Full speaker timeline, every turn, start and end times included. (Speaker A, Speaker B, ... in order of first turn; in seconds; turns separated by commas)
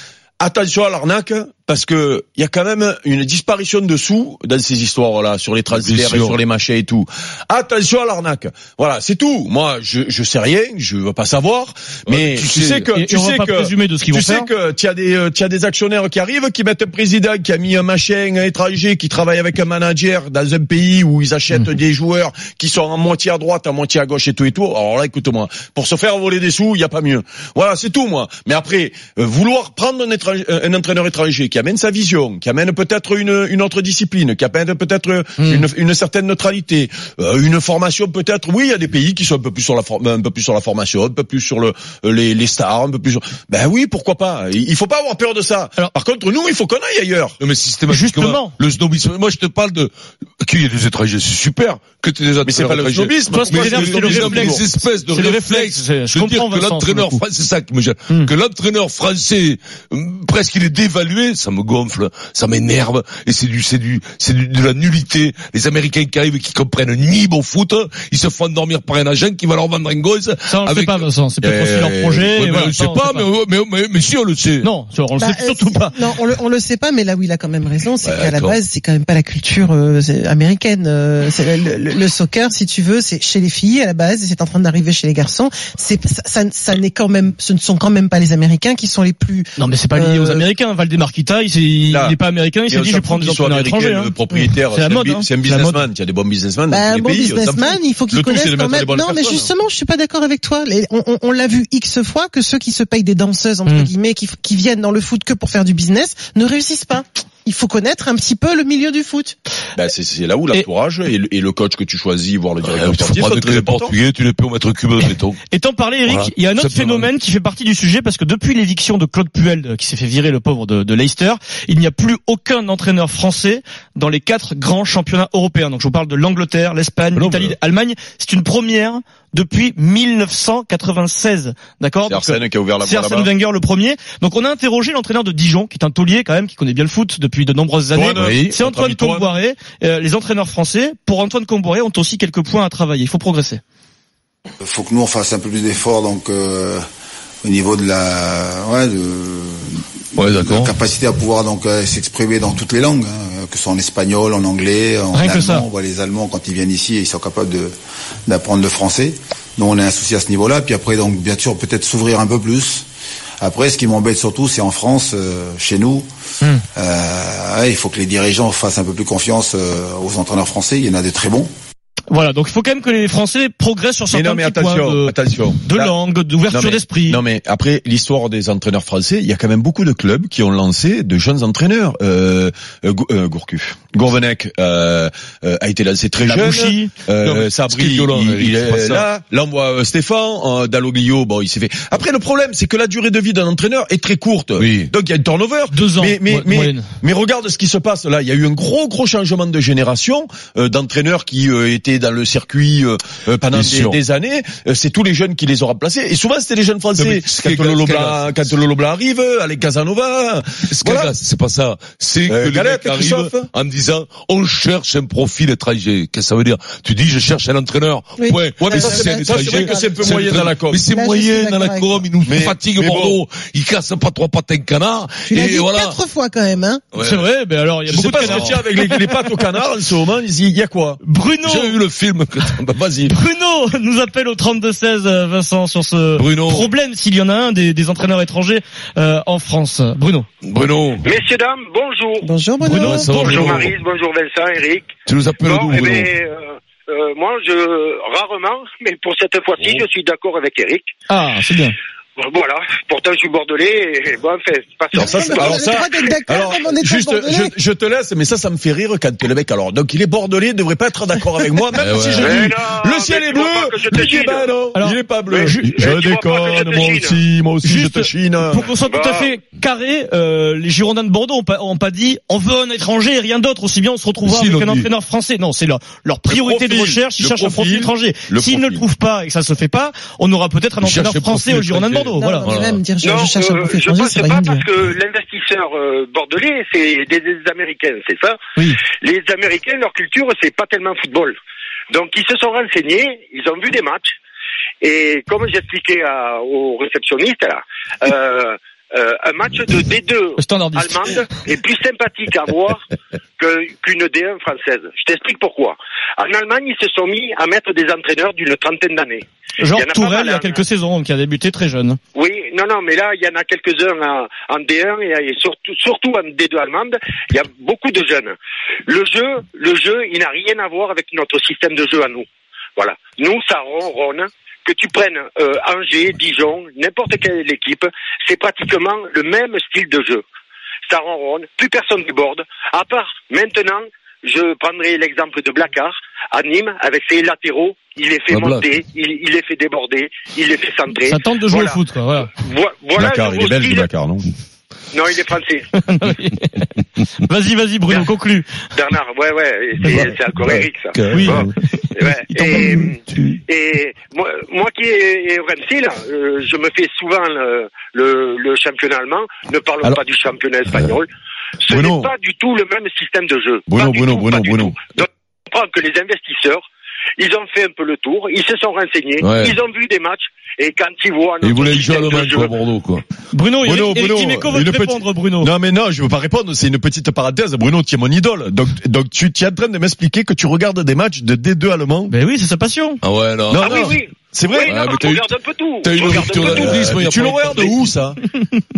Speaker A: 0.4-47.4, Speaker B: 5.7-6.4, Speaker B: 12.1-12.9, Speaker C: 12.9-14.5, Speaker C: 35.4-35.6, Speaker B: 47.4-71.0, Speaker C: 47.9-48.5, Speaker A: 52.4-54.7, Speaker C: 53.3-57.2, Speaker C: 70.5-73.2, Speaker A: 71.4-72.3, Speaker B: 72.4-74.7, Speaker C: 74.6-75.9, Speaker D: 75.2-90.4, Speaker B: 78.0-78.6, Speaker C: 89.6-95.8, Speaker A: 91.9-99.5, Speaker D: 96.7-109.4, Speaker A: 109.8-113.9, Speaker B: 112.6-115.4, Speaker C: 115.5-143.6, Speaker B: 116.1-117.1, Speaker B: 127.2-127.5, Speaker A: 132.1-133.3, Speaker A: 137.9-139.3, Speaker E: 144.6-146.8, Speaker E: 147.4-157.7, Speaker B: 150.2-150.7, Speaker C: 155.1-155.7, Speaker E: 158.3-162.9, Speaker E: 163.4-166.1, Speaker E: 166.8-171.5, Speaker C: 172.1-177.2, Speaker A: 174.1-176.0, Speaker A: 176.5-211.1, Speaker C: 186.2-186.9, Speaker B: 187.2-189.1, Speaker B: 194.6-194.9, Speaker C: 195.7-196.8, Speaker B: 203.5-204.0, Speaker B: 207.0-208.5, Speaker B: 210.7-226.0, Speaker A: 212.3-213.5, Speaker D: 218.2-222.1, Speaker A: 218.6-220.9, Speaker A: 222.2-223.2, Speaker D: 225.3-226.8, Speaker B: 226.9-227.3, Speaker C: 227.0-229.2, Speaker A: 227.9-231.0, Speaker B: 228.0-228.6, Speaker C: 231.0-231.8, Speaker B: 231.4-233.0, Speaker A: 232.8-233.1, Speaker C: 233.1-240.2, Speaker B: 236.2-236.7, Speaker B: 240.4-241.1, Speaker F: 241.0-242.3, Speaker D: 242.2-243.3, Speaker C: 242.6-243.5, Speaker B: 242.8-243.8, Speaker F: 243.1-244.9, Speaker B: 245.1-246.1, Speaker F: 245.4-250.9, Speaker B: 249.6-249.8, Speaker C: 251.1-251.8, Speaker F: 252.2-255.6, Speaker D: 254.9-257.6, Speaker A: 255.0-268.7, Speaker B: 261.8-262.5, Speaker F: 262.1-264.4, Speaker B: 264.3-264.7, Speaker C: 264.8-265.7, Speaker F: 265.3-267.2, Speaker C: 267.6-282.5, Speaker F: 268.8-269.3, Speaker B: 274.2-274.9, Speaker A: 276.3-278.9, Speaker B: 280.8-282.8, Speaker D: 282.2-284.7, Speaker F: 283.0-291.4, Speaker F: 291.9-294.1, Speaker F: 294.8-302.8, Speaker C: 300.4-301.2, Speaker F: 303.4-310.6, Speaker C: 309.6-312.0, Speaker F: 312.1-318.4, Speaker F: 318.9-330.2, Speaker F: 330.9-341.8, Speaker B: 338.3-338.7, Speaker C: 341.0-342.3, Speaker F: 342.3-343.9, Speaker A: 343.0-344.3, Speaker F: 344.9-345.7, Speaker C: 345.8-346.7, Speaker C: 347.2-348.5, Speaker F: 348.7-361.1, Speaker C: 349.8-350.1, Speaker B: 350.4-351.5, Speaker C: 351.1-351.5, Speaker A: 351.2-351.5, Speaker C: 352.4-352.9, Speaker F: 361.6-366.6, Speaker A: 361.7-362.1, Speaker A: 363.7-364.8, Speaker F: 367.2-372.5, Speaker B: 369.2-369.6, Speaker B: 371.4-373.0, Speaker C: 373.3-375.5, Speaker A: 373.6-382.1, Speaker C: 382.1-383.0, Speaker B: 383.0-384.0, Speaker A: 383.5-384.8, Speaker F: 383.6-386.8, Speaker B: 384.7-387.8, Speaker A: 385.9-388.2